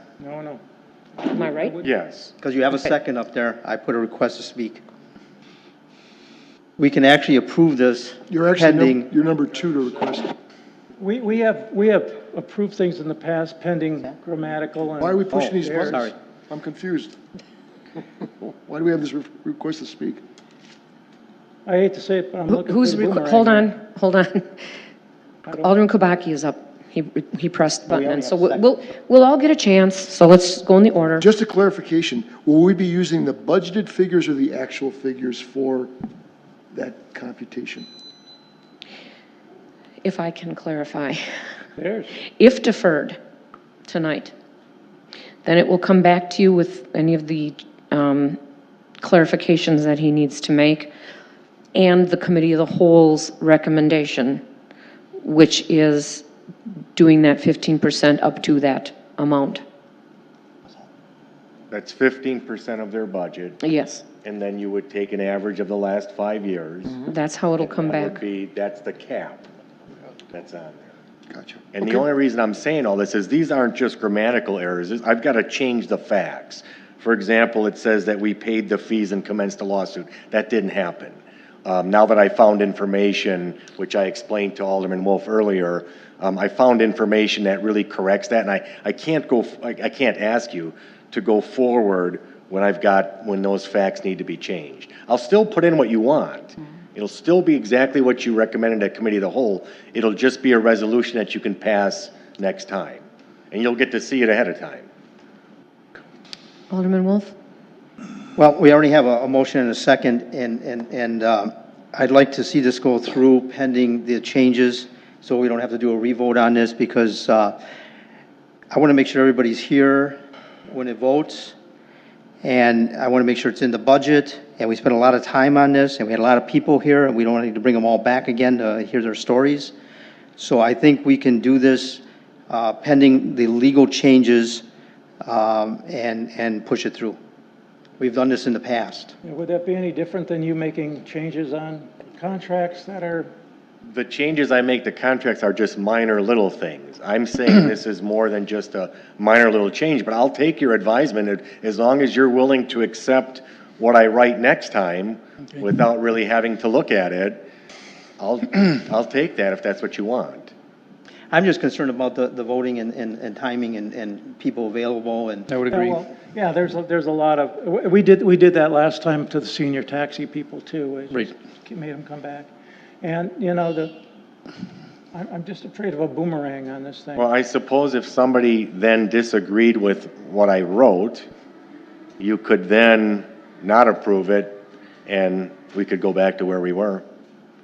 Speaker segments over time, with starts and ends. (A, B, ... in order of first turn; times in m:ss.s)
0:00.2-0:00.6 A
0:01.3-0:01.9 A
0:01.3-0:01.8 B
0:01.8-0:02.3 C
0:02.4-0:04.8 D
0:06.8-0:09.1 D
0:08.3-0:10.3 E
0:11.0-0:16.0 A
0:15.0-0:17.1 E
0:15.3-0:16.1 D
0:18.0-0:20.2 E
0:21.6-0:23.7 A
0:22.5-0:24.7 B
0:25.4-0:25.7 A
0:25.5-0:31.3 B
0:27.9-0:28.8 D
0:31.2-0:35.9 E
0:36.7-0:37.9 E
0:40.0-0:41.2 B
0:41.8-0:42.1 A
0:42.4-0:43.2 B
0:43.9-0:44.3 B
0:45.4-0:48.4 B
0:49.0-0:50.9 B
0:51.7-0:54.4 B
0:55.2-0:56.2 B
0:56.9-0:59.6 B
1:01.7-1:03.6 C
1:03.6-1:04.0 B
1:04.2-1:07.0 C
1:07.0-1:08.2 B
1:07.6-1:09.4 C
1:10.3-1:10.8 C
1:11.3-1:12.0 E
1:11.7-1:44.9 C
1:46.7-1:47.3 B
1:48.4-1:57.6 D
1:58.7-2:01.5 D
2:02.4-2:09.7 D
2:10.4-2:14.6 D
2:15.2-2:17.2 D
2:18.0-2:19.1 D
2:19.2-2:23.3 A
2:23.9-2:37.4 C
2:38.2-2:40.5 C
2:41.3-2:46.0 D
2:45.6-2:52.5 A
2:53.0-2:54.0 A
2:55.1-2:57.2 A
2:57.2-3:01.3 C
3:02.2-3:07.0 C